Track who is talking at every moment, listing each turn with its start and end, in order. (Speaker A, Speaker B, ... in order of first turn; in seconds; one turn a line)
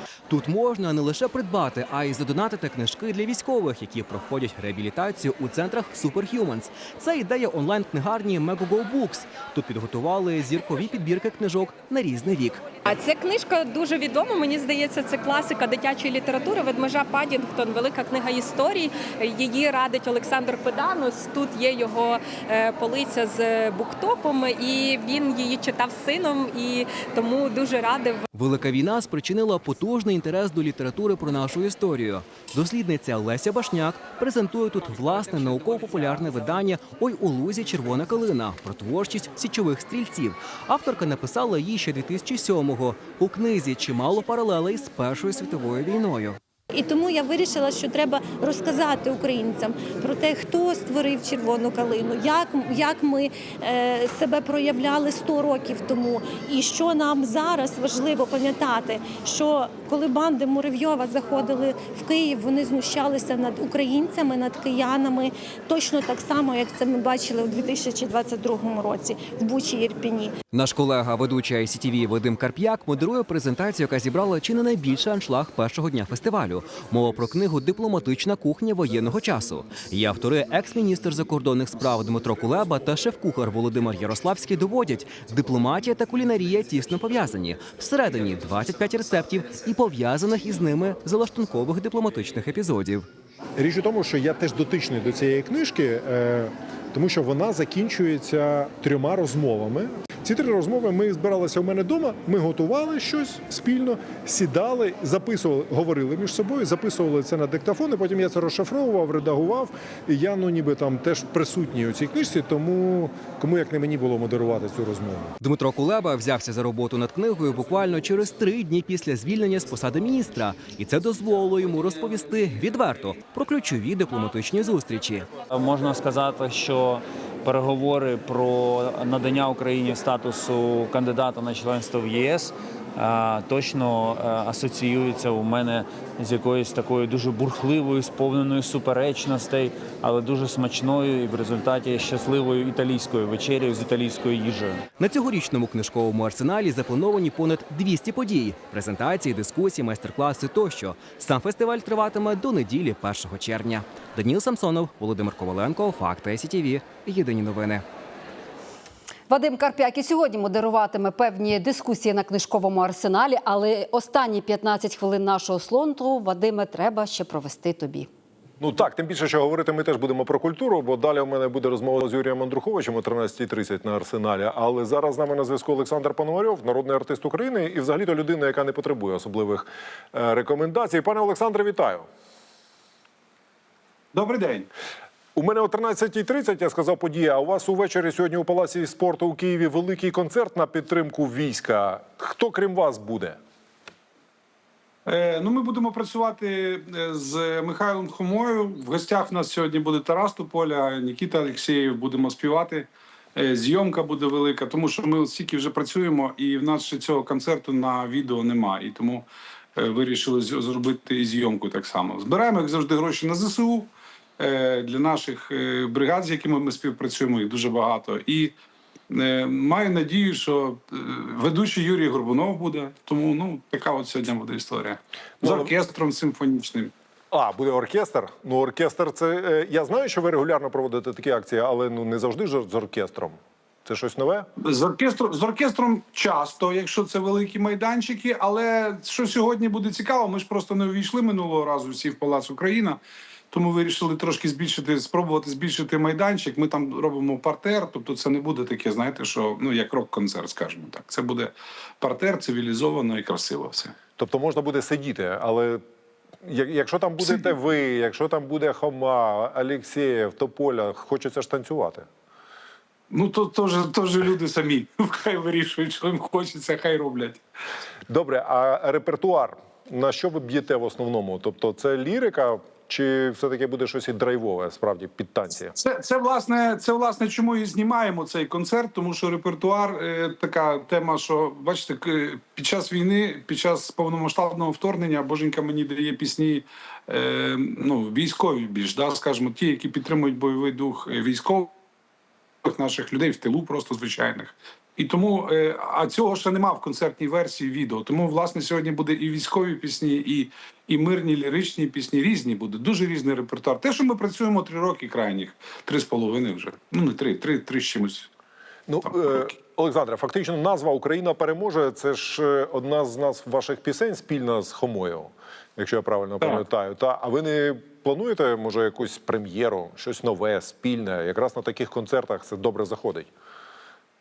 Speaker A: 0.3-12.6
Speaker B: 12.8-28.2
Speaker A: 28.3-46.4
Speaker C: 46.7-70.4
Speaker A: 70.5-93.1
Speaker D: 93.6-115.3
Speaker A: 115.4-125.3
Speaker E: 125.5-144.9
Speaker A: 145.0-157.8
Speaker F: 159.3-168.1
Speaker D: 168.6-182.1
Speaker G: 184.1-184.7
Speaker D: 185.3-193.4
Speaker G: 195.1-209.3
Speaker G: 209.8-218.5
Speaker G: 219.1-226.9
Speaker D: 225.4-225.7
Speaker D: 227.3-234.5
Speaker G: 234.6-243.0
Speaker G: 243.5-253.9
Speaker D: 254.2-255.8
Speaker D: 256.4-262.1
Speaker G: 263.1-267.4
Speaker D: 268.1-275.7
Speaker G: 275.8-291.7
Speaker G: 292.6-308.3
Speaker D: 308.9-323.3
Speaker G: 309.0-309.5